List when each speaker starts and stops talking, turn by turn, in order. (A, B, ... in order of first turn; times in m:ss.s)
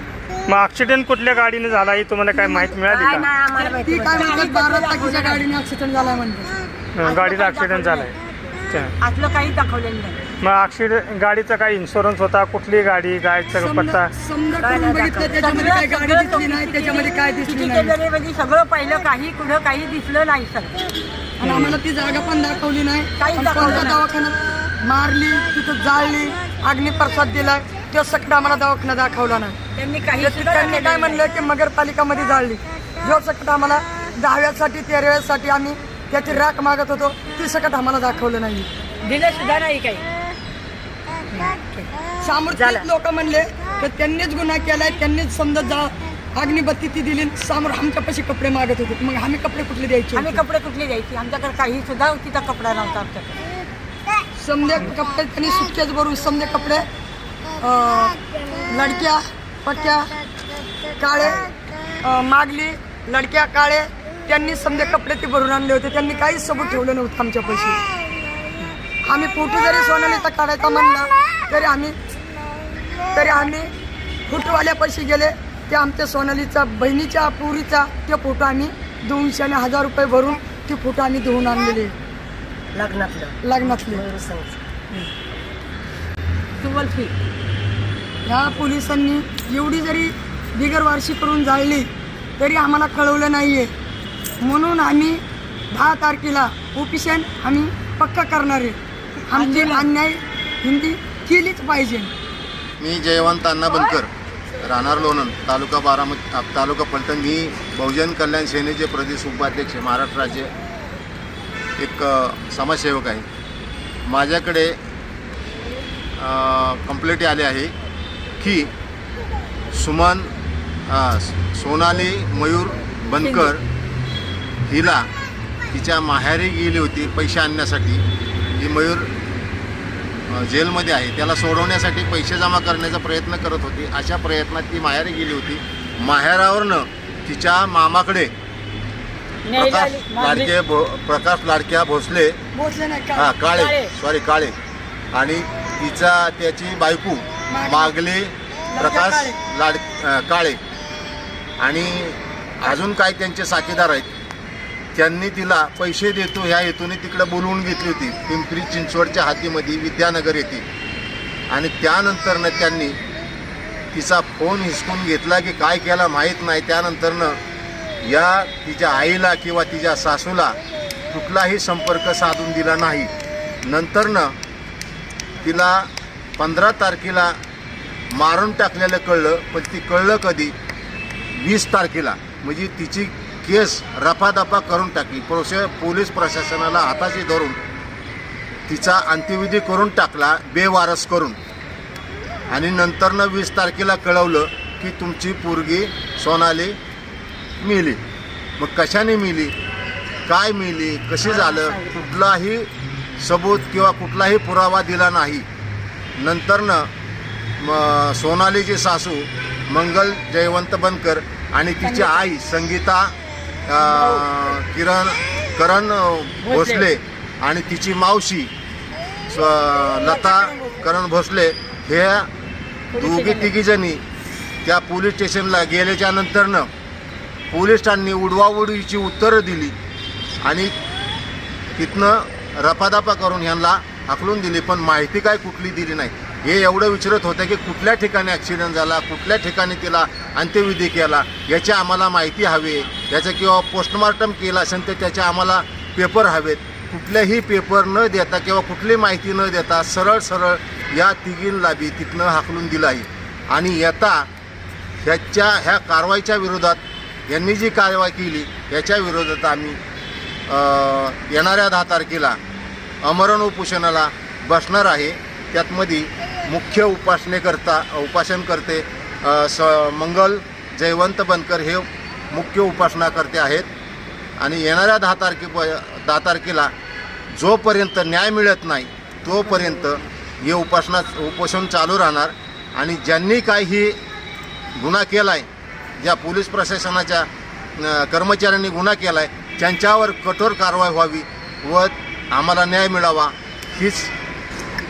0:00.5-0:03.3 A
0:02.9-0:04.5 B
0:03.6-0:06.6 C
0:04.1-0:05.4 D
0:07.0-0:08.1 A
0:07.0-0:08.1 D
0:09.0-0:10.2 D
0:10.4-0:14.1 A
0:13.6-0:17.9 C
0:14.6-0:15.6 B
0:15.4-0:20.8 D
0:21.4-0:29.6 C
0:21.4-0:21.8 A
0:23.2-0:24.0 D
0:29.8-0:31.3 D
0:30.2-0:38.7 C
0:39.0-0:40.0 D
0:41.3-0:41.9 D
0:42.2-0:50.4 C
0:42.5-0:42.9 B
0:50.2-0:53.4 D
0:54.4-0:56.9 C
0:57.6-1:00.2 C
1:01.0-1:07.8 C
1:09.0-1:12.0 C
1:13.1-1:13.7 C
1:14.3-1:22.0 C
1:22.7-1:24.6 B
1:23.4-1:24.0 C
1:26.6-1:27.1 D
1:28.2-1:33.7 C
1:34.4-1:42.1 C
1:39.3-1:39.9 D
1:42.8-1:44.1 E
1:44.6-1:50.5 E
1:51.8-1:53.3 E
1:54.1-1:54.8 E
1:56.2-1:57.8 E
1:58.4-1:58.7 E
1:59.7-2:00.3 E
2:00.9-2:03.6 E
2:03.2-2:03.5 D
2:04.7-2:05.1 E
2:05.7-2:08.0 E
2:08.6-2:09.1 E
2:10.3-2:18.3 E
2:19.4-2:20.5 D
2:19.6-2:22.4 E
2:22.5-2:23.3 C
2:23.2-2:24.6 E
2:23.4-2:23.9 D
2:25.1-2:30.6 E
2:27.5-2:27.9 C
2:28.7-2:29.4 C
2:31.6-2:34.1 E
2:35.0-2:40.6 E
2:41.5-2:43.0 E
2:43.9-2:47.4 E
2:48.0-2:50.6 E
2:51.1-2:53.1 E
2:53.6-2:54.3 E
2:55.4-2:57.4 E
2:58.1-3:00.5 E
3:01.4-3:07.6 E
3:08.7-3:11.4 E
3:12.5-3:16.8 E
3:17.6-3:18.0 E
3:18.6-3:19.5 E
3:20.3-3:22.7 E
3:21.2-3:22.0 D
3:23.2-3:25.4 E
3:26.2-3:26.9 E
3:27.6-3:33.1 E
3:31.8-3:32.2 D
3:33.7-3:38.5 E
3:33.8-3:34.2 D
3:36.4-3:36.9 D
3:39.3-3:42.3 E
3:42.9-3:43.5 D
3:43.0-3:44.0 E
3:44.6-3:46.7 E
3:47.5-3:49.8 E
3:50.4-3:50.7 E
3:51.8-4:14.3 E
4:15.0-4:19.8 E
4:20.5-4:22.4 E
4:23.0-4:33.7 E
4:34.4-4:36.7 E
4:37.3-4:44.0 E
4:44.8-4:45.5 E
4:46.0-4:54.1 E